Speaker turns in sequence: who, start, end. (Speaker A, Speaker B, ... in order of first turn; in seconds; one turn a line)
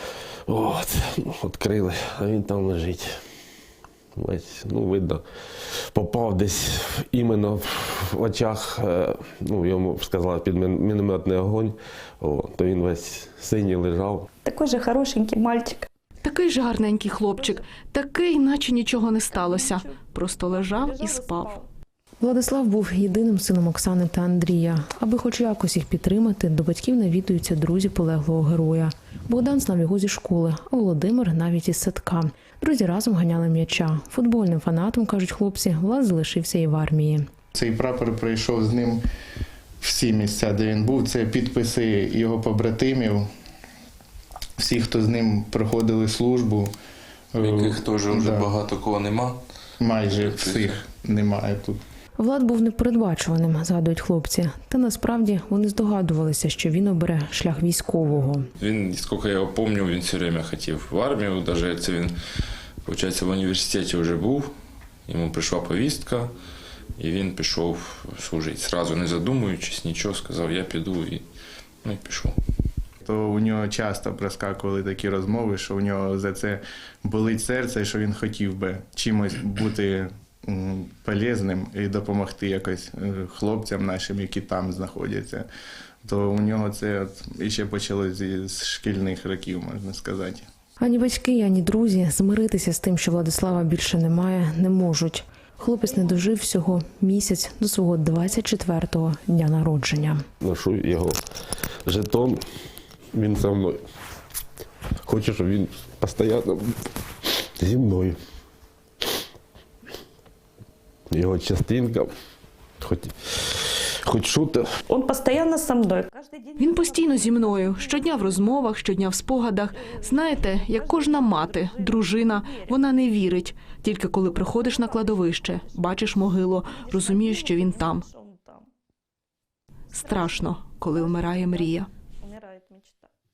Speaker A: 0.5-3.2
Speaker A: 4.2-14.3
Speaker B: 14.4-15.9
Speaker C: 16.2-21.6
Speaker B: 19.4-19.8
Speaker B: 20.8-21.6
Speaker D: 22.2-37.3
Speaker E: 37.5-39.0
Speaker E: 39.8-43.3
Speaker E: 44.6-46.7
Speaker E: 47.3-48.5
Speaker F: 47.4-49.4
Speaker E: 49.8-51.8
Speaker F: 50.0-50.8
Speaker D: 52.2-58.5
Speaker F: 58.6-62.1
Speaker F: 62.8-64.5
Speaker F: 65.0-66.3
Speaker F: 67.0-71.2
Speaker F: 71.8-72.3
Speaker E: 73.0-85.5
Speaker E: 86.0-90.5
Speaker D: 90.8-100.2
Speaker A: 100.4-101.2
Speaker A: 101.8-102.4
Speaker A: 103.1-103.8
Speaker A: 105.0-106.9
Speaker A: 107.4-108.2
Speaker A: 111.1-112.1
Speaker A: 112.8-114.7
Speaker B: 114.9-116.6
Speaker D: 116.3-118.6
Speaker C: 116.6-128.1
Speaker D: 119.9-122.8
Speaker B: 121.8-122.2
Speaker D: 124.2-125.7
Speaker B: 124.6-125.2
Speaker D: 126.9-128.7
Speaker C: 129.9-131.9
Speaker D: 130.1-133.0
Speaker B: 131.1-131.5
Speaker B: 132.7-133.1